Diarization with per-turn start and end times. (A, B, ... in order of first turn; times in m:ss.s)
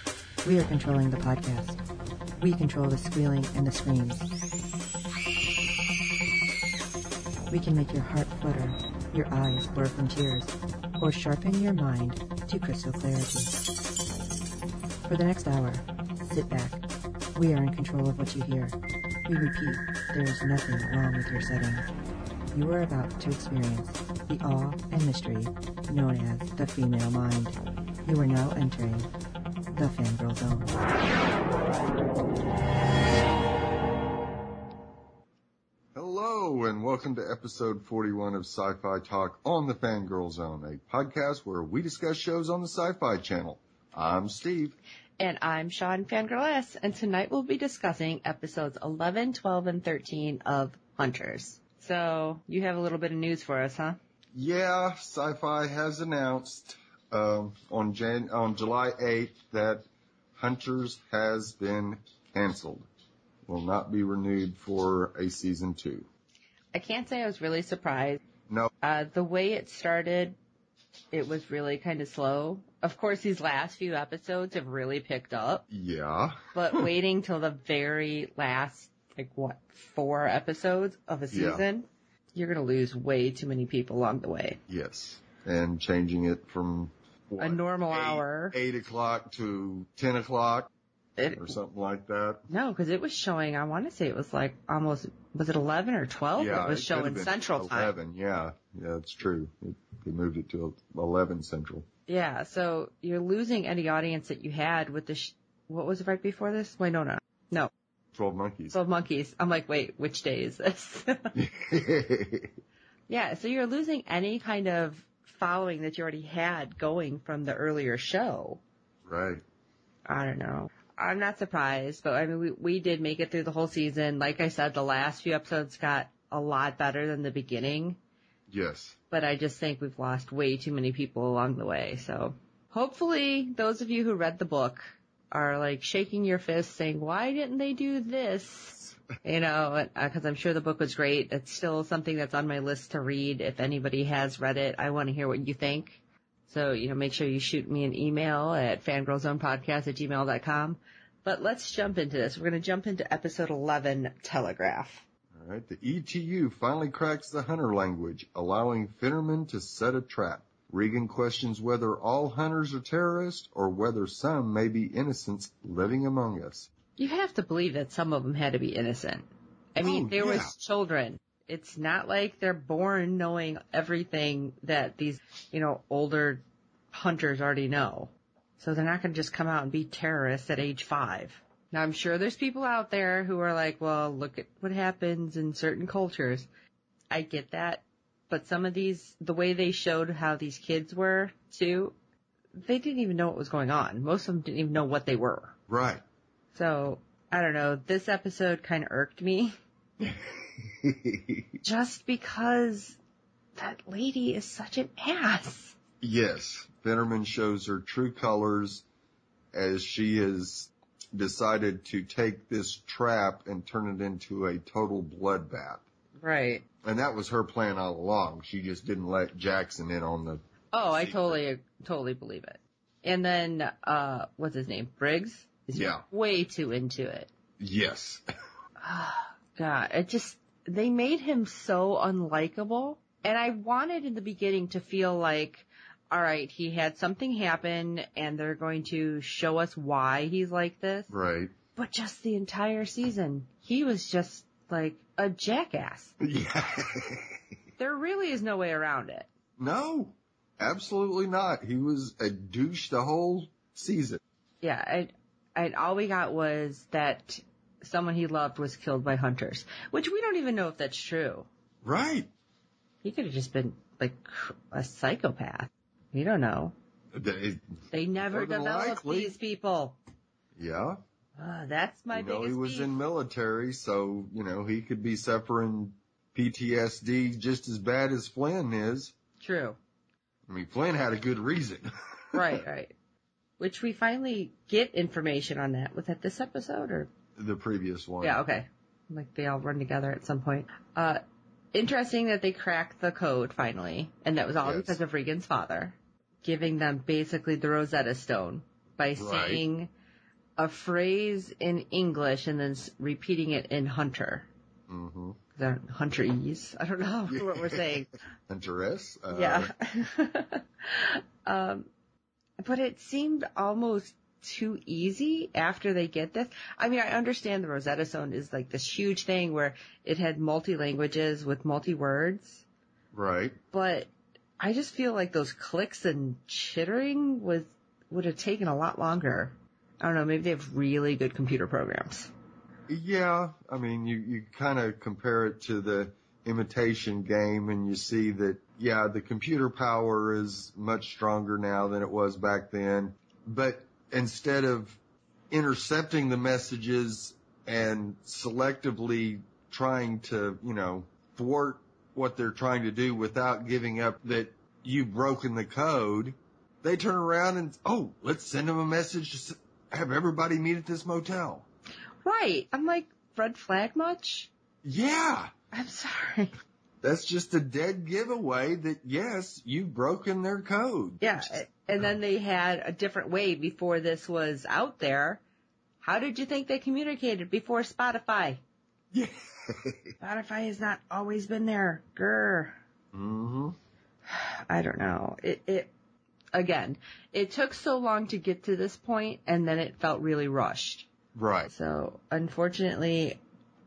0:00.4-0:01.7 A
0:02.4-0:04.2 A
0:03.4-0:03.8 B
0:07.5-0:10.5 A
0:07.5-0:10.2 B
0:11.0-0:13.5 A
0:11.0-0:13.3 B
0:15.1-0:16.7 B
0:17.4-0:18.6 B
0:17.4-0:18.7 A
0:19.3-0:21.2 B
0:19.3-0:21.8 A
0:22.5-0:25.5 A
0:22.6-0:23.7 B
0:24.3-0:27.4 B
0:26.3-0:27.5 A
0:28.0-0:28.7 B
0:28.0-0:29.0 A
0:29.7-0:30.6 B
0:29.8-0:30.6 A
0:35.9-0:44.8 C
0:45.2-0:54.0 B
0:54.3-0:59.8 C
1:00.4-1:02.8 C
1:03.4-1:06.1 C
1:06.7-1:08.2 B
1:08.8-1:10.4 B
1:11.1-1:15.7 B
1:15.7-1:16.9 C
1:16.5-1:24.6 B
1:21.3-1:21.6 C
1:24.7-1:30.7 C
1:27.4-1:28.5 B
1:31.2-1:31.6 B
1:31.3-1:32.5 C
1:32.5-1:37.9 B
1:36.4-1:41.8 C
1:42.1-1:47.7 B
1:48.1-1:48.8 C
1:48.7-1:51.3 B
1:51.3-1:52.5 C
1:53.1-1:58.6 B
1:59.0-1:59.4 C
2:00.1-2:08.0 B
2:08.5-2:09.0 C
2:09.1-2:35.0 B
2:35.3-2:46.7 C
2:47.0-3:06.5 B
2:49.8-2:50.5 C
3:07.1-3:11.9 B
3:12.5-3:15.6 B
3:15.7-3:16.0 C
3:16.5-3:19.6 B
3:20.0-3:21.4 C
3:21.6-3:23.0 B
3:23.6-3:25.8 B
3:26.0-3:28.8 C
3:29.5-3:35.8 C
3:36.2-3:36.6 B
3:36.8-3:41.4 C
3:40.7-3:47.3 B
3:45.7-3:46.0 C
3:47.6-3:48.2 C
3:48.8-4:01.1 B
4:01.1-4:01.5 C
4:01.8-4:06.1 B
4:06.2-4:07.3 C
4:07.8-4:09.3 B
4:09.6-4:14.2 C
4:14.6-4:21.5 B
4:21.8-4:22.3 C
4:23.0-4:26.7 B
4:27.1-4:27.6 C
4:27.9-4:30.0 B
4:28.3-4:29.3 C
4:30.6-4:31.0 C
4:31.4-4:32.9 B
4:32.1-4:39.1 C
4:39.4-4:39.8 B
4:40.5-4:42.6 C
4:42.3-4:42.9 B
4:43.6-4:47.1 B
4:47.4-4:48.4 C
4:48.2-4:51.2 B
4:51.7-4:59.9 B
4:54.6-4:55.0 C
4:59.2-4:59.6 C
5:00.6-5:04.5 B
5:04.9-5:05.4 C
5:05.5-5:08.1 B
5:07.3-5:09.7 C
5:09.3-5:11.9 B
5:12.6-5:22.6 B
5:23.1-5:23.6 C
5:23.7-5:32.3 B
5:32.9-5:45.0 C
5:45.5-6:01.6 C
6:02.2-6:04.5 B
6:04.8-6:05.5 C
6:05.7-6:06.5 B
6:07.0-6:11.6 C
6:11.2-6:15.4 B
6:16.0-6:18.6 B
6:19.1-6:20.1 C
6:20.2-6:22.8 B
6:23.1-6:23.7 C
6:24.3-6:25.9 B
6:26.5-6:31.1 B
6:31.3-6:31.7 C
6:31.7-6:33.4 B